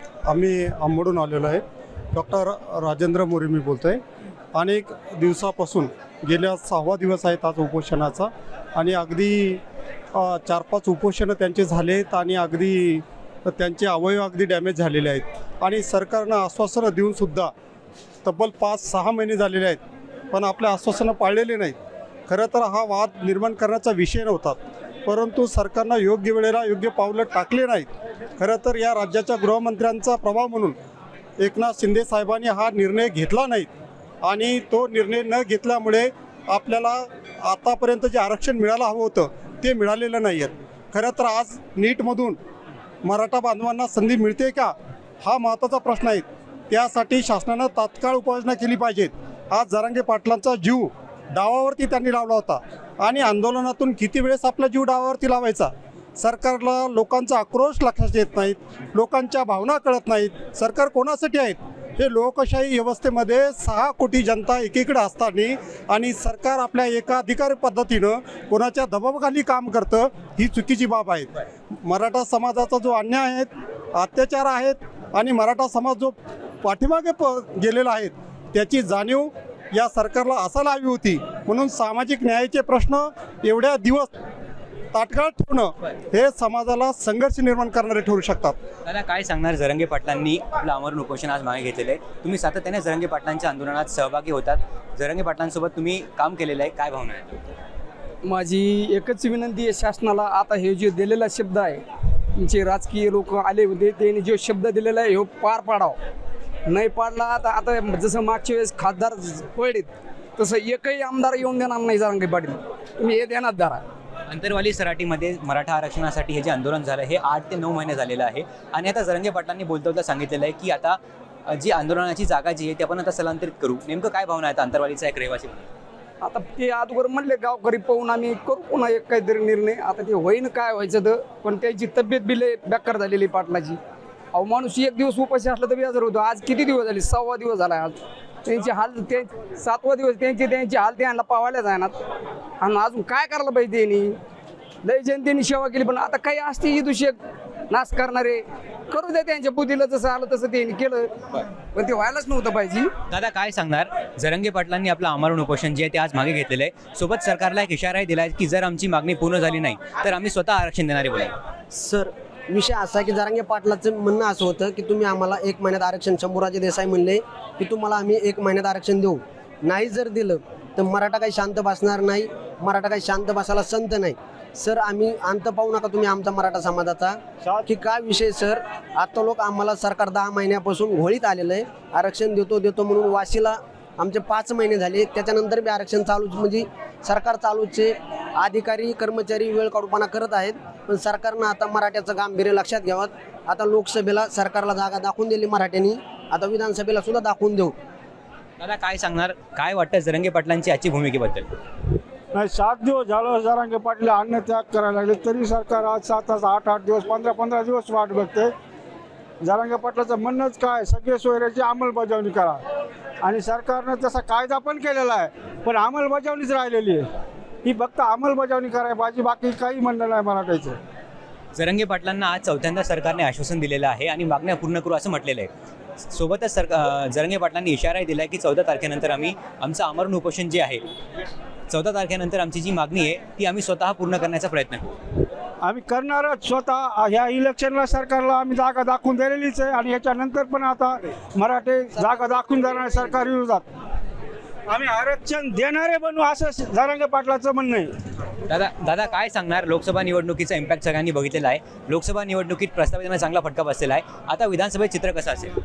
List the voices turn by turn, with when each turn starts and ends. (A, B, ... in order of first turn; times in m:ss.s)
0:00.3-0:01.6 A
0:02.1-0:04.0 A
0:04.5-0:09.6 A
0:10.2-0:17.5 A
0:18.2-0:19.8 A
0:20.3-0:21.8 A
0:22.3-0:30.8 A
0:31.4-0:33.7 A
0:34.2-0:42.4 A
0:43.1-1:11.3 A
1:11.8-1:24.1 A
1:24.9-1:28.6 A
1:28.8-1:37.5 B
1:38.2-1:41.8 C
1:42.4-1:46.0 C
1:46.7-1:53.8 C
1:54.3-2:05.7 B
2:06.2-2:13.8 C
2:14.4-2:22.0 C
2:22.6-2:24.2 C
2:24.8-2:27.2 C
2:27.7-2:32.9 C
2:33.1-2:41.3 B
2:41.7-3:17.8 D
3:18.6-3:21.5 B
3:22.3-3:28.5 E
3:29.4-3:32.6 E
3:33.2-3:37.1 E
3:37.6-3:40.8 E
3:41.6-3:45.5 B
3:46.0-3:50.8 B
3:51.7-3:54.9 B
3:55.6-4:03.6 E
4:02.0-4:03.0 D
4:04.7-4:07.9 E
4:08.5-4:15.6 B